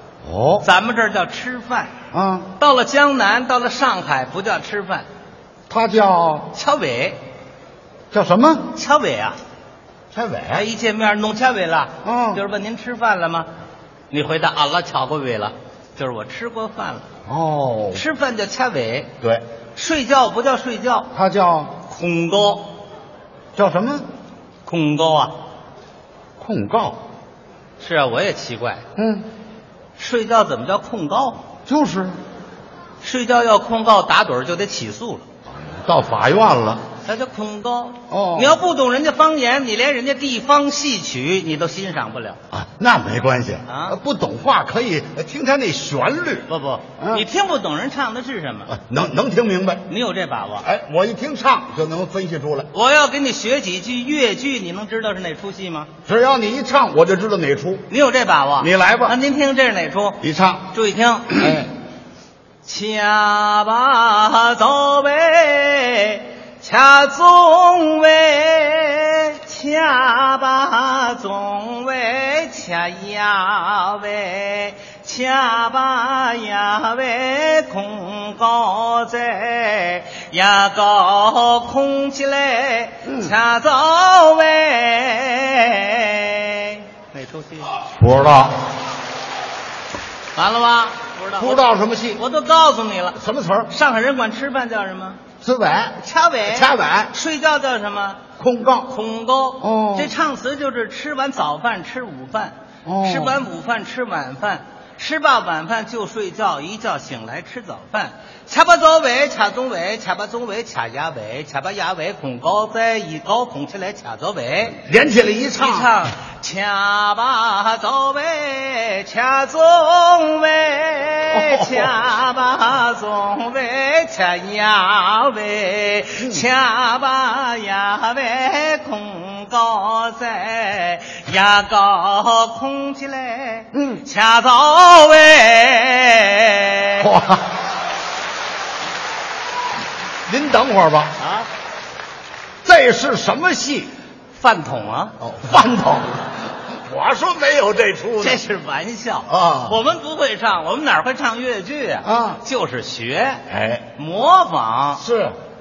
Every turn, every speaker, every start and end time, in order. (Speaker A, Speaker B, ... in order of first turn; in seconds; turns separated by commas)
Speaker A: 0.2-0.7, Speaker B: 0.6-1.9, Speaker A: 2.1-2.5, Speaker B: 2.6-5.1, Speaker A: 5.7-6.5, Speaker B: 6.5-7.2, Speaker A: 8.1-8.7, Speaker B: 8.7-9.4, Speaker A: 10.1-10.7, Speaker B: 10.5-13.5, Speaker A: 12.0-12.4, Speaker B: 14.1-17.1, Speaker A: 17.3-18.0, Speaker B: 17.9-19.1, Speaker B: 19.8-21.1, Speaker A: 21.1-21.8, Speaker B: 21.9-22.8, Speaker A: 23.6-24.1, Speaker B: 24.7-25.4, Speaker A: 26.4-27.0, Speaker B: 27.8-28.8, Speaker A: 29.0-29.3, Speaker B: 30.0-31.4, Speaker A: 31.7-32.2, Speaker B: 33.0-35.2, Speaker A: 35.5-36.8, Speaker B: 37.0-42.4, Speaker A: 38.1-38.6, Speaker A: 42.5-47.2, Speaker B: 43.7-44.0, Speaker B: 46.5-48.7, Speaker A: 48.7-49.9, Speaker B: 49.9-50.7, Speaker A: 50.6-52.7, Speaker B: 52.7-55.9, Speaker A: 56.1-57.9, Speaker B: 57.9-60.2, Speaker A: 58.6-59.2, Speaker A: 60.2-60.7, Speaker B: 60.7-61.6, Speaker A: 61.3-61.7, Speaker B: 62.6-87.8, Speaker A: 83.0-83.3, Speaker A: 87.8-88.6, Speaker B: 90.3-91.6, Speaker A: 91.4-92.2, Speaker B: 92.2-95.2, Speaker A: 93.2-93.7, Speaker A: 95.4-97.1, Speaker B: 96.0-98.2, Speaker A: 98.4-98.9, Speaker B: 98.9-114.8, Speaker A: 99.6-100.1, Speaker A: 102.8-103.4, Speaker A: 114.8-115.9, Speaker B: 115.6-137.1, Speaker A: 121.3-121.9, Speaker A: 126.2-126.5, Speaker A: 133.7-134.0, Speaker A: 137.0-137.5, Speaker A: 140.3-141.2, Speaker B: 141.2-141.5, Speaker A: 142.6-143.9, Speaker B: 144.3-145.2, Speaker A: 145.2-148.4, Speaker B: 148.2-153.4, Speaker A: 149.3-149.8, Speaker A: 152.0-152.4, Speaker A: 153.5-153.9, Speaker B: 154.0-155.1, Speaker A: 155.0-155.4